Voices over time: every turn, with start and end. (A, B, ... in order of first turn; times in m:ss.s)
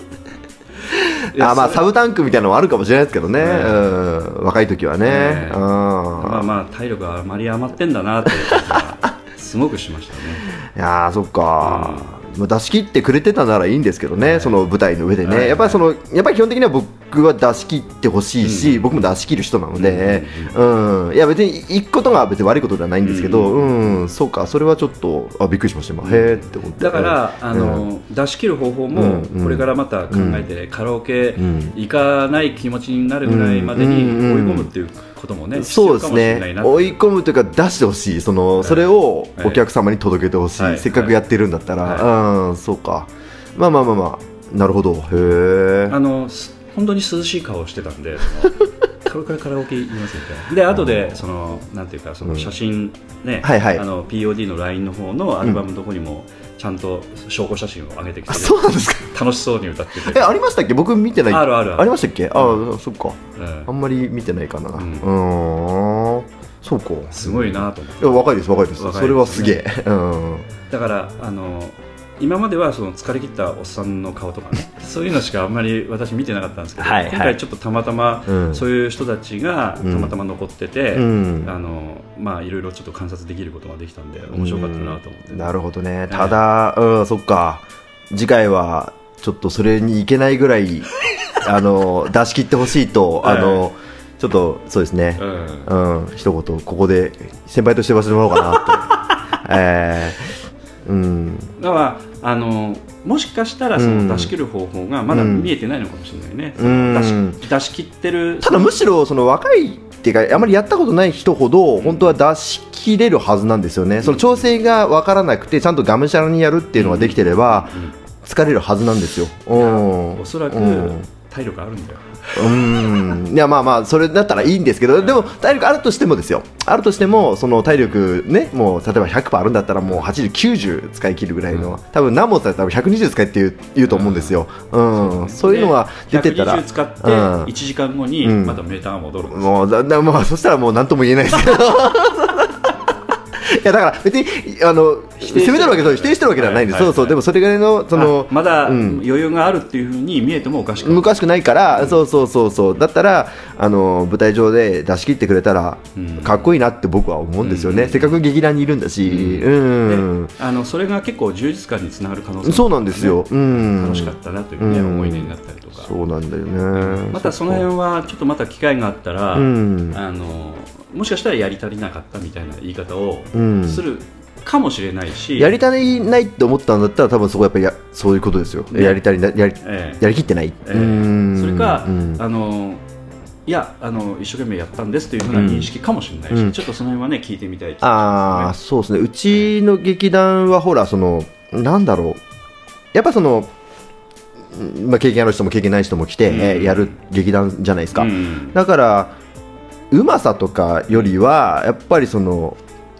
0:00.9-0:06.5 A
0:01.2-0:01.8 B
0:03.4-0:03.9 B
0:05.0-0:05.6 B
0:06.2-0:10.5 B
0:08.5-0:08.8 A
0:10.6-0:27.8 A
0:11.6-0:12.2 B
0:14.2-0:14.6 B
0:15.2-0:15.8 B
0:18.4-0:19.0 B
0:19.7-0:20.6 B
0:23.0-0:24.0 B
0:26.0-0:37.0 B
0:28.9-0:30.4 A
0:31.4-0:31.7 A
0:33.2-0:34.7 A
0:35.5-0:46.0 A
0:38.6-0:39.6 B
0:40.6-0:41.2 B
0:41.8-0:42.1 B
0:45.9-1:00.3 B
0:50.7-0:51.1 A
0:53.4-0:53.8 A
0:58.3-0:59.1 A
1:00.0-1:10.4 A
1:01.3-1:02.6 B
1:03.4-1:03.7 B
1:04.8-1:05.1 B
1:07.1-1:09.6 B
1:10.7-1:25.5 B
1:16.8-1:17.4 A
1:18.3-1:18.6 A
1:19.8-1:20.1 A
1:20.9-1:21.5 A
1:24.3-1:41.5 A
1:26.1-1:26.4 B
1:33.2-1:33.6 B
1:35.2-1:35.7 B
1:41.6-1:48.8 B
1:43.8-1:44.3 A
1:45.1-1:45.5 A
1:46.6-1:47.4 A
1:48.4-2:01.0 A
1:51.8-1:52.1 B
1:54.0-1:54.4 B
1:56.8-1:57.9 B
1:59.5-2:02.9 B
2:02.3-2:17.5 A
2:05.0-2:05.3 B
2:13.8-2:14.4 B
2:14.9-2:19.6 B
2:18.2-2:18.6 A
2:19.3-2:29.0 A
2:25.2-2:27.2 B
2:27.9-2:31.1 B
2:30.8-2:40.3 A
2:31.7-2:32.0 B
2:36.0-2:36.5 B
2:37.4-2:38.2 B
2:39.0-2:45.9 B
2:42.4-2:47.6 A
2:46.7-2:55.6 B
2:49.3-2:50.0 A
2:53.3-2:53.8 A
2:55.4-3:02.2 A
2:58.7-2:59.0 B
2:59.6-3:00.0 B
3:00.6-3:02.8 B
3:03.4-3:08.6 B
3:05.2-3:05.7 A
3:06.3-3:06.6 A
3:07.8-3:12.2 A
3:12.9-3:13.5 A
3:14.5-3:19.2 A
3:16.3-3:17.0 B
3:17.9-3:18.6 B
3:19.9-3:22.6 A